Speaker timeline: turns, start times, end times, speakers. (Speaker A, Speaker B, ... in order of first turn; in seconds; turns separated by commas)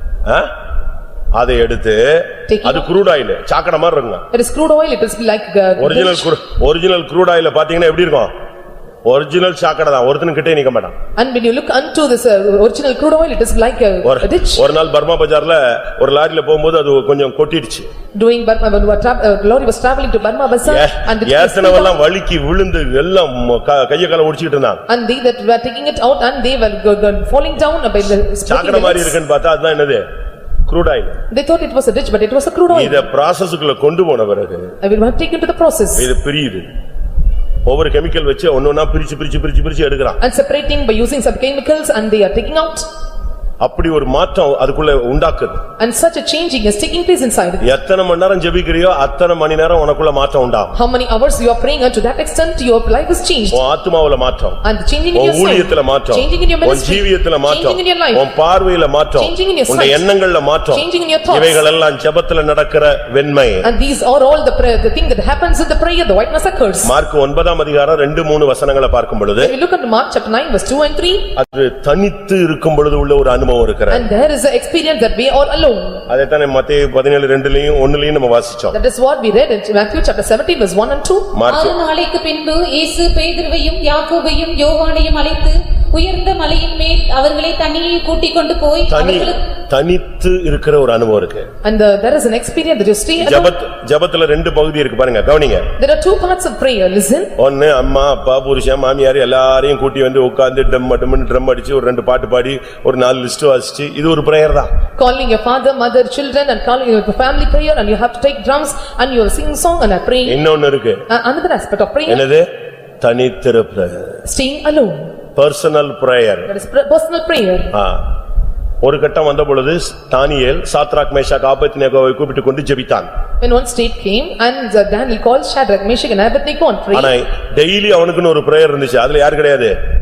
Speaker A: 0.2-0.5, Speaker A: 1.3-4.2, Speaker B: 2.5-2.9, Speaker B: 4.3-6.3, Speaker A: 5.8-8.3, Speaker A: 9.0-10.9, Speaker B: 11.2-14.6, Speaker A: 14.0-17.9, Speaker B: 18.1-22.0, Speaker A: 20.6-24.8, Speaker B: 24.9-29.2, Speaker A: 28.5-30.0, Speaker A: 30.7-31.2, Speaker B: 31.3-33.0, Speaker A: 32.7-34.7, Speaker B: 34.8-36.1, Speaker A: 36.0-36.6, Speaker A: 37.6-40.2, Speaker B: 40.2-42.9, Speaker A: 43.6-45.6, Speaker B: 45.8-47.6, Speaker A: 47.6-50.7, Speaker B: 50.7-53.6, Speaker A: 53.5-54.6, Speaker B: 54.6-58.2, Speaker A: 55.1-63.7, Speaker B: 59.2-60.0, Speaker B: 60.7-61.6, Speaker B: 63.6-67.0, Speaker A: 66.8-69.5, Speaker B: 69.4-71.3, Speaker A: 71.3-74.1, Speaker B: 73.9-76.0, Speaker A: 76.1-78.8, Speaker B: 78.7-81.3, Speaker A: 81.3-81.7, Speaker C: 81.5-89.4, Speaker A: 88.9-91.5, Speaker B: 91.6-93.5, Speaker A: 93.2-95.7, Speaker B: 95.8-97.3, Speaker A: 97.4-104.7, Speaker B: 105.0-110.4, Speaker A: 110.2-111.0, Speaker B: 111.1-112.2, Speaker A: 112.1-112.5, Speaker A: 113.0-114.2, Speaker B: 114.2-115.1, Speaker A: 115.3-116.5, Speaker B: 116.5-117.7, Speaker A: 117.7-118.0, Speaker A: 118.8-123.1, Speaker B: 123.4-127.1, Speaker A: 126.9-129.7